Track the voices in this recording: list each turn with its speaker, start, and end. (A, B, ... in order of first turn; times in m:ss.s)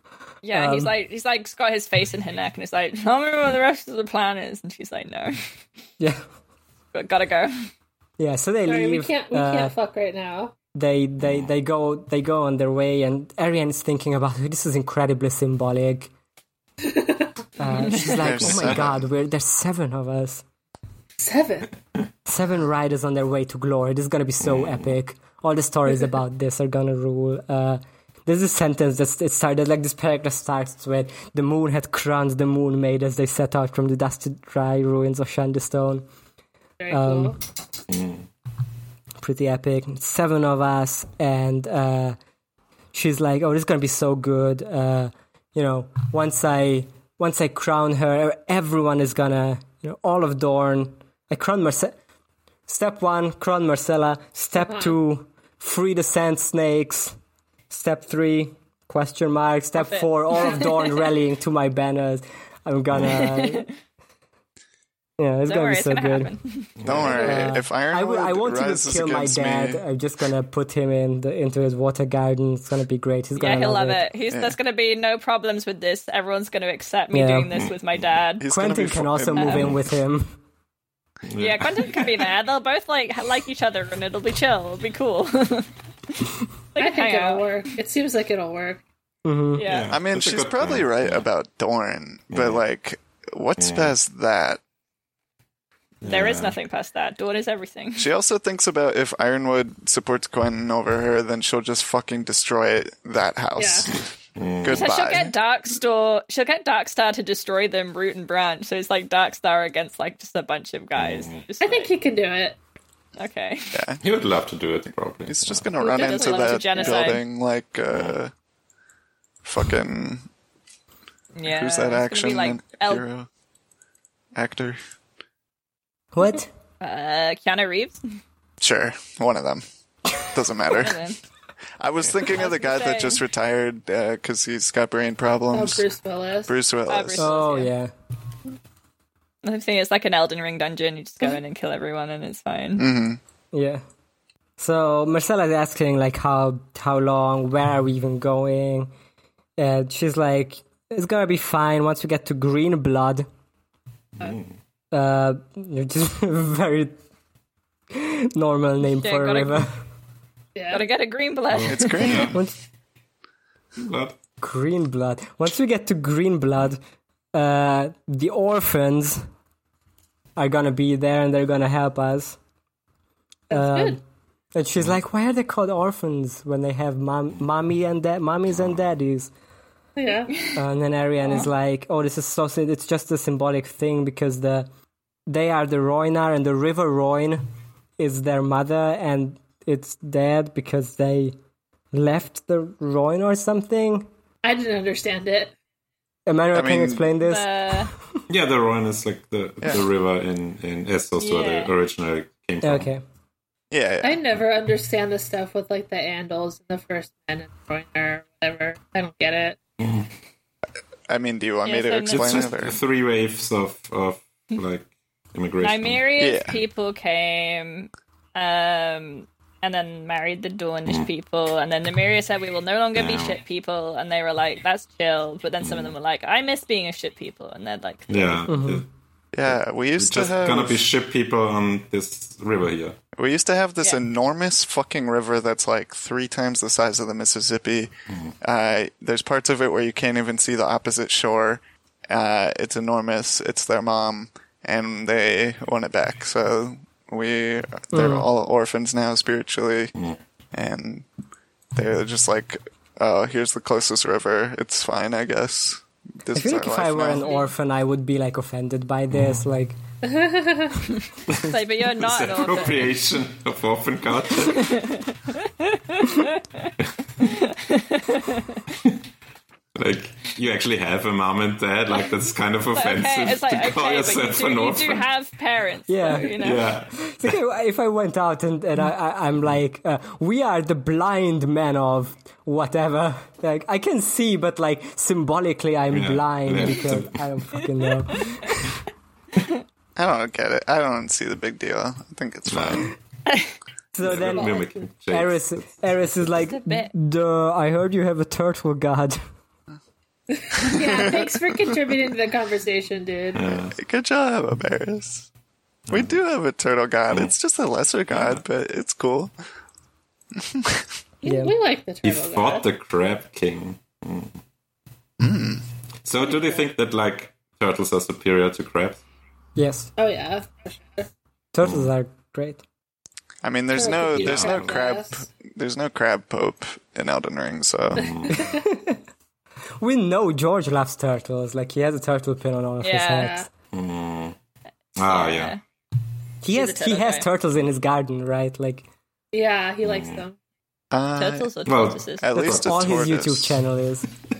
0:00.4-0:05.4 A
0:00.5-0:00.9 B
0:06.9-0:07.7 A
0:08.2-0:09.7 B
0:08.6-0:10.5 C
0:10.7-0:16.1 B
0:16.8-0:17.3 C
0:17.6-0:20.4 B
0:17.7-0:18.2 A
0:18.0-0:19.0 D
0:18.4-0:18.8 E
0:21.2-0:21.7 C
0:22.2-0:36.0 B
0:24.4-0:24.9 E
0:36.8-0:37.4 C
0:36.9-0:37.4 B
0:37.9-0:38.2 E
0:39.2-0:42.2 B
0:42.9-0:52.0 B
0:52.7-0:57.2 B
0:57.7-1:03.7 B
0:59.8-1:00.7 A
1:03.0-1:03.7 A
1:05.2-1:06.3 B
1:05.4-1:06.7 A
1:06.8-1:07.3 E
1:06.8-1:09.8 D
1:07.1-1:07.5 C
1:07.2-1:14.0 B
1:13.4-1:18.4 A
1:14.3-1:14.6 D
1:17.1-1:17.5 B
1:18.4-1:19.7 D
1:18.4-1:20.3 B
1:19.3-1:19.7 A
1:21.3-1:22.2 E
1:21.4-1:25.7 A
1:26.7-1:27.5 A
1:26.8-1:28.8 C
1:29.2-1:29.6 B
1:29.5-1:29.9 A
1:29.6-1:31.3 E
1:29.9-1:34.6 D
1:32.3-1:32.6 E
1:33.6-1:33.9 E
1:36.0-1:36.6 E
1:36.0-1:38.1 A
1:38.0-1:44.0 D
1:43.6-1:43.9 C
1:44.4-1:44.9 E
1:44.6-1:45.3 D
1:44.7-1:51.9 A
1:51.0-1:51.4 E
1:51.6-1:52.6 C
1:53.2-1:53.8 A
1:53.7-1:54.0 D
1:54.0-1:55.7 E
1:55.3-1:58.3 D
1:55.8-1:57.1 C
1:55.8-1:57.2 A
1:57.9-1:58.2 E
1:59.4-2:00.2 D
2:01.3-2:03.0 A
2:01.4-2:03.3 D
2:04.3-2:04.8 D
2:06.1-2:06.5 B
2:06.8-2:08.0 A
2:08.6-2:11.0 D
2:10.7-2:11.2 A
2:11.8-2:15.8 D
2:12.3-2:13.2 A
2:15.5-2:16.5 C
2:16.5-2:17.3 D
2:16.9-2:17.7 A
2:17.2-2:17.9 B
2:19.4-2:22.8 A
2:22.8-2:23.2 D
2:23.5-2:23.8 B
2:24.6-2:28.9 B
2:29.6-2:33.3 B
2:34.2-2:34.5 E
2:34.9-2:37.0 B
2:37.9-2:39.7 B
2:39.0-2:39.6 A
2:40.5-2:40.8 C
2:40.7-2:42.2 A
2:41.5-2:42.4 E
2:41.6-2:42.4 D
2:43.8-2:44.2 E
2:44.4-2:46.8 B
2:47.3-2:49.3 B
2:50.4-2:52.4 B
2:53.5-2:54.0 C
2:53.5-2:54.0 B
2:54.5-2:59.3 B
3:00.0-3:00.5 C
3:00.6-3:04.7 B
3:05.3-3:07.4 B
3:08.0-3:11.3 B
3:11.9-3:14.1 B
3:14.4-3:15.5 C
3:16.2-3:17.9 B
3:16.5-3:17.1 D
3:17.2-3:17.9 A
3:18.3-3:22.9 E
3:21.2-3:21.7 A
3:22.6-3:23.0 B
3:23.7-3:24.3 D
3:24.0-3:29.6 C
3:29.8-3:30.1 E
3:31.1-3:32.8 D
3:31.6-3:32.5 A
3:32.1-3:36.0 E
3:35.6-3:48.4 A
3:36.2-3:36.6 D
3:42.9-3:43.4 E
3:45.6-3:45.9 E
3:48.1-3:48.8 E
3:48.5-3:48.8 B
3:49.3-3:50.8 D
3:49.4-3:53.0 E
3:53.2-4:09.9 D
3:58.1-3:58.3 E
4:07.9-4:08.3 B
4:10.5-4:11.1 D
4:11.7-4:17.3 D
4:16.3-4:19.8 B
4:17.2-4:17.5 A
4:19.1-4:19.4 E
4:20.0-4:20.8 C
4:21.3-4:24.8 E
4:21.4-4:22.9 A
4:24.5-4:28.6 A
4:29.7-4:35.0 E
4:32.7-4:36.6 A
4:35.9-4:36.4 B
4:36.4-4:37.4 E
4:37.0-4:48.6 B
4:45.9-4:47.2 E
4:48.2-4:48.6 A
4:50.0-4:52.9 D
4:52.5-4:52.9 E
4:53.2-4:53.5 A
4:53.9-4:54.6 B
4:54.0-4:55.7 E
4:54.1-4:54.8 C
4:55.1-4:59.2 B
4:56.5-4:56.9 A
5:00.3-5:03.5 C
5:00.6-5:01.2 D
5:03.3-5:03.8 E
5:03.7-5:05.3 D
5:05.9-5:06.2 E
5:05.9-5:09.3 D
5:08.1-5:08.4 E
5:10.4-5:10.8 D
5:11.2-5:12.7 C
5:11.2-5:11.5 B
5:12.0-5:14.4 E
5:15.2-5:15.6 D
5:16.0-5:19.0 E
5:19.6-5:19.9 B
5:20.0-5:21.1 C
5:21.5-5:22.6 B
5:21.6-5:21.9 E
5:23.4-5:28.3 D
5:23.7-5:25.1 C
5:24.1-5:24.8 E
5:27.9-5:28.4 E
5:28.3-5:28.6 C
5:28.5-5:29.0 B
5:29.8-5:33.4 B
5:32.8-5:33.3 A
5:33.2-5:33.5 C
5:33.7-5:34.4 E
5:35.0-5:35.5 E
5:35.0-5:35.6 A
5:36.4-5:38.8 B
5:36.5-5:37.3 A
5:39.3-5:40.4 C
5:39.8-5:40.2 E
5:40.9-5:41.5 D
5:41.2-5:42.3 A
5:41.6-5:43.0 E
5:42.2-5:43.6 D
5:42.4-5:44.1 B